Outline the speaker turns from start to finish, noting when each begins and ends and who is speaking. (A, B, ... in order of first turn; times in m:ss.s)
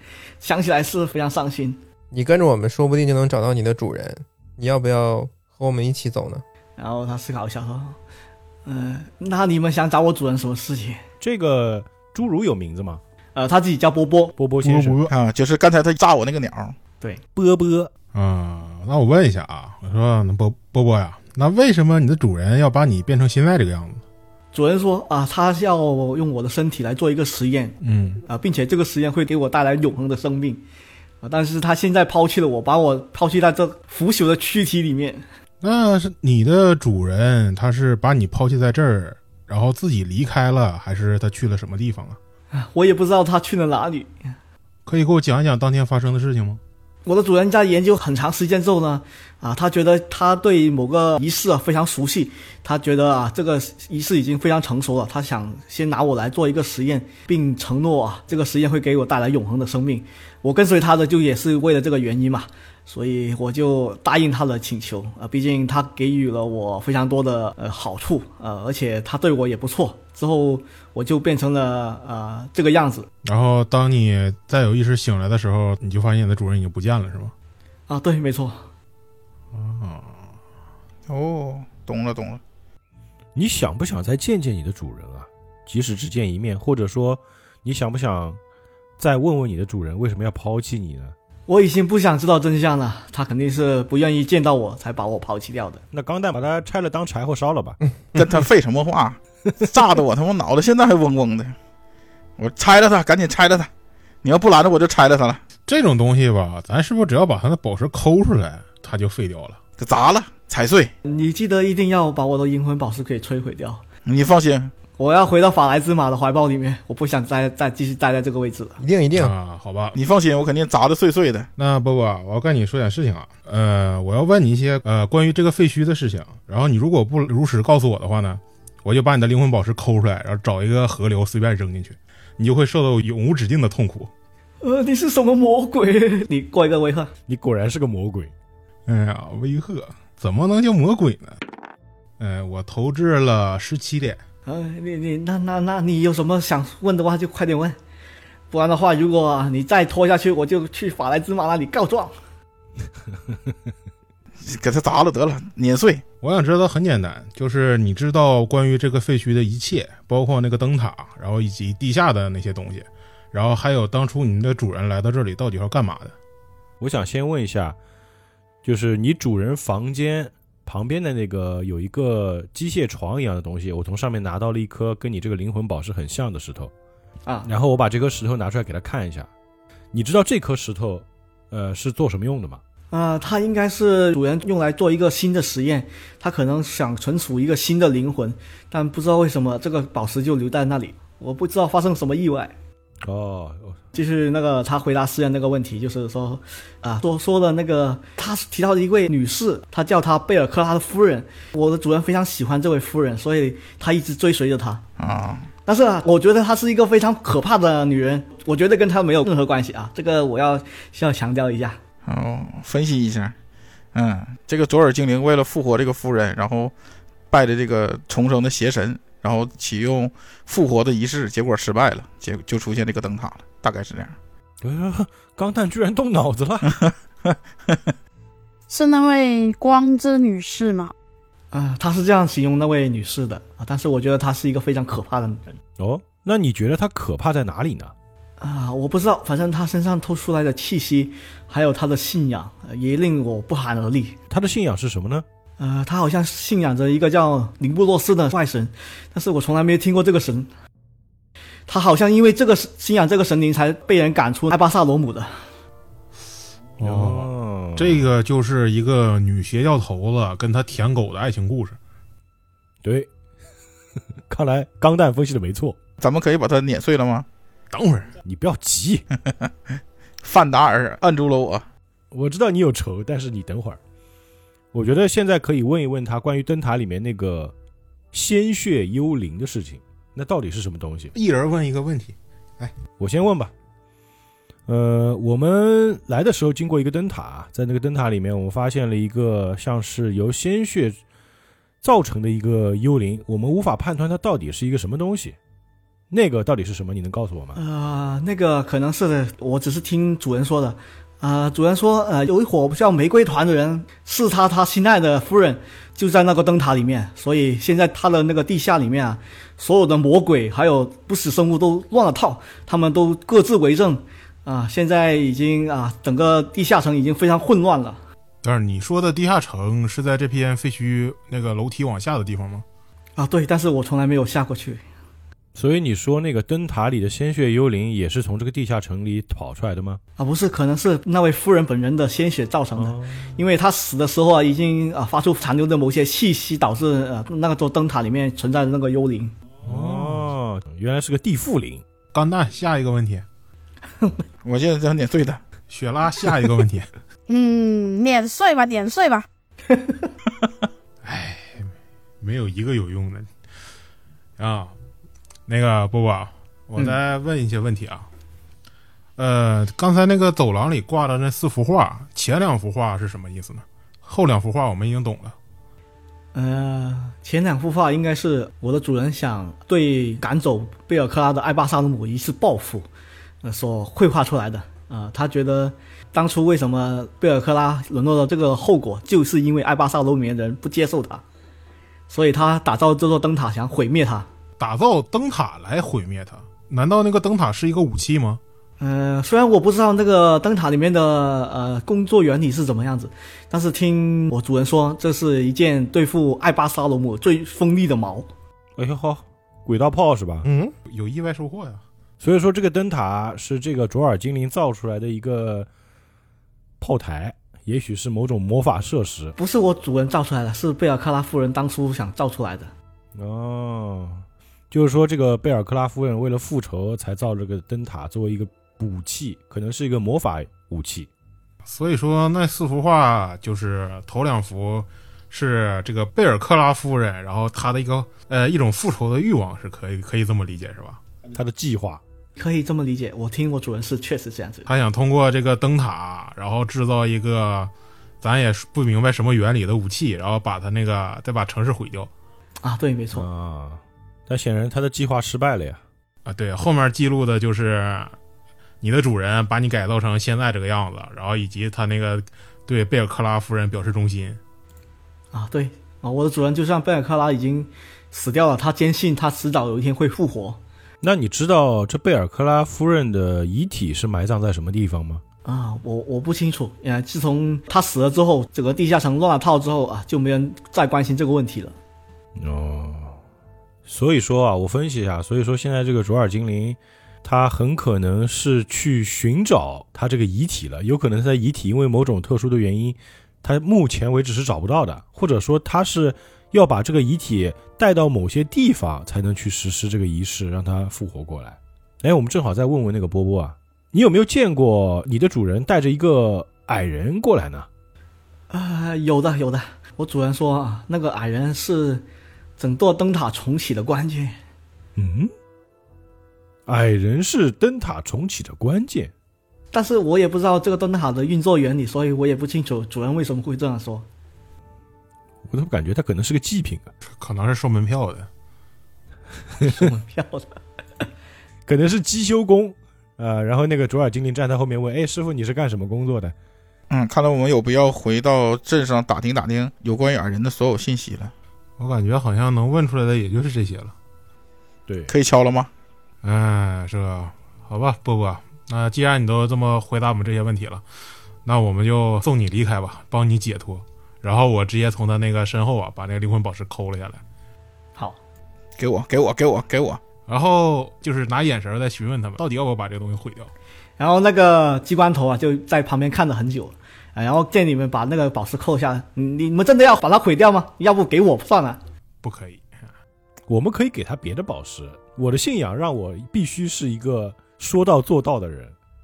0:00.4-0:01.8 A
0:02.1-0:06.4 B
0:06.8-0:08.0 A
0:08.7-0:11.0 A
0:11.2-0:13.0 C
0:13.4-0:14.4 A
0:14.4-0:15.0 C
0:14.6-0:15.1 D
0:15.1-0:16.8 E
0:17.4-0:17.9 C
0:18.1-0:24.0 D
0:24.5-0:30.6 A
0:27.8-0:28.2 D
0:31.2-0:35.2 A
0:35.6-0:42.2 D
0:42.5-0:44.3 A
0:44.9-0:46.6 D
0:47.1-1:13.1 A
1:13.2-1:17.3 D
1:17.9-1:18.7 A
1:19.5-1:20.2 D
1:21.1-1:22.4 E
1:23.4-1:28.4 C
1:29.0-1:31.1 C
1:31.5-1:35.8 A
1:35.9-1:37.8 C
1:38.2-1:41.6 E
1:42.4-1:43.7 E
1:44.2-1:45.4 E
1:45.7-1:49.6 D
1:49.8-1:50.9 E
1:51.0-1:53.8 A
1:54.1-1:54.7 E
1:55.0-1:58.8 A
1:58.8-1:59.3 B
1:59.1-2:00.0 D
2:00.0-2:01.5 E
2:01.6-2:14.1 D
2:14.6-2:17.1 A
2:17.3-2:18.3 C
2:18.9-2:21.4 D
2:22.2-2:24.2 D
2:24.5-2:27.8 A
2:28.5-2:32.1 A
2:34.4-2:36.0 E
2:36.2-2:46.2 D
2:46.8-2:47.8 C
2:48.6-2:56.7 C
2:57.5-2:59.3 C
2:59.9-3:02.6 C
3:02.9-3:12.5 A
3:13.0-3:13.8 C
3:14.0-3:24.8 A
3:25.0-3:25.5 E
3:25.7-3:31.8 A
3:32.1-3:33.4 E
3:33.9-3:36.7 E
3:37.3-3:44.2 E
3:44.6-3:46.8 C
3:47.3-3:47.8 E
3:48.7-3:50.9 F
3:51.5-3:55.6 A
3:55.8-3:57.9 C
3:58.4-4:04.2 A
4:04.3-4:05.2 C
4:05.6-4:10.5 A
4:11.7-4:15.4 A
4:16.8-4:21.8 D
4:16.8-4:18.1 C
4:22.8-4:23.1 C
4:24.3-4:25.8 C
4:26.0-4:27.3 E
4:27.7-4:28.1 D
4:28.2-4:29.0 C
4:30.2-4:31.7 E
4:32.1-4:33.8 C
4:34.7-4:37.5 C
4:38.1-4:41.1 C
4:41.2-4:42.7 D
4:43.0-4:43.5 C
4:44.7-4:51.0 C
4:51.8-4:55.4 C
4:56.1-4:57.6 C
4:57.6-5:18.0 A
5:18.4-5:22.6 D
5:23.2-5:24.8 A
5:25.6-5:30.0 C
5:30.2-5:39.3 A
5:32.8-5:33.3 C
5:39.6-5:41.8 C
5:39.7-5:40.2 D
5:42.1-5:43.2 D
5:44.4-5:45.4 E
5:45.7-5:46.9 D
5:47.3-5:49.3 F
5:51.0-5:51.7 D
5:52.2-5:53.3 D
5:54.4-5:54.7 D
5:55.5-5:58.1 D
5:59.2-6:05.4 D
6:06.3-6:12.9 A
6:13.4-6:21.2 A
6:22.1-6:24.3 A
6:24.6-6:28.4 D
6:28.8-6:38.3 A
6:38.8-6:40.5 C
6:40.4-6:40.7 B
6:40.9-6:41.8 D
6:42.2-6:45.7 C
6:46.8-6:49.3 C
6:49.4-6:52.7 A
6:53.2-7:01.1 C
7:01.7-7:11.0 D
7:11.3-7:12.0 C
7:12.4-7:14.7 A
7:14.7-7:22.1 D
7:22.6-7:23.3 A
7:23.1-7:25.8 C
7:26.3-7:28.1 D
7:28.8-7:34.4 D
7:35.3-7:40.6 A
7:41.0-7:45.2 C
7:45.4-7:51.8 A
7:52.4-7:53.2 C
7:53.9-8:17.7 C
8:18.5-8:22.0 A
8:22.6-8:24.4 A
8:25.0-8:25.3 C
8:26.7-8:29.1 C
8:29.7-8:34.1 A
8:35.5-8:36.9 C
8:37.1-8:38.3 D
8:39.6-8:40.6 A
8:41.7-8:46.4 C
8:46.9-8:51.3 E
8:51.8-8:53.9 D
8:54.9-8:55.1 C
8:55.1-8:55.7 E
8:56.2-9:00.8 D
9:01.4-9:07.2 D
9:08.8-9:10.0 E
9:10.3-9:13.5 D
9:14.0-9:21.8 A
9:22.2-9:22.7 D
9:23.5-9:28.8 C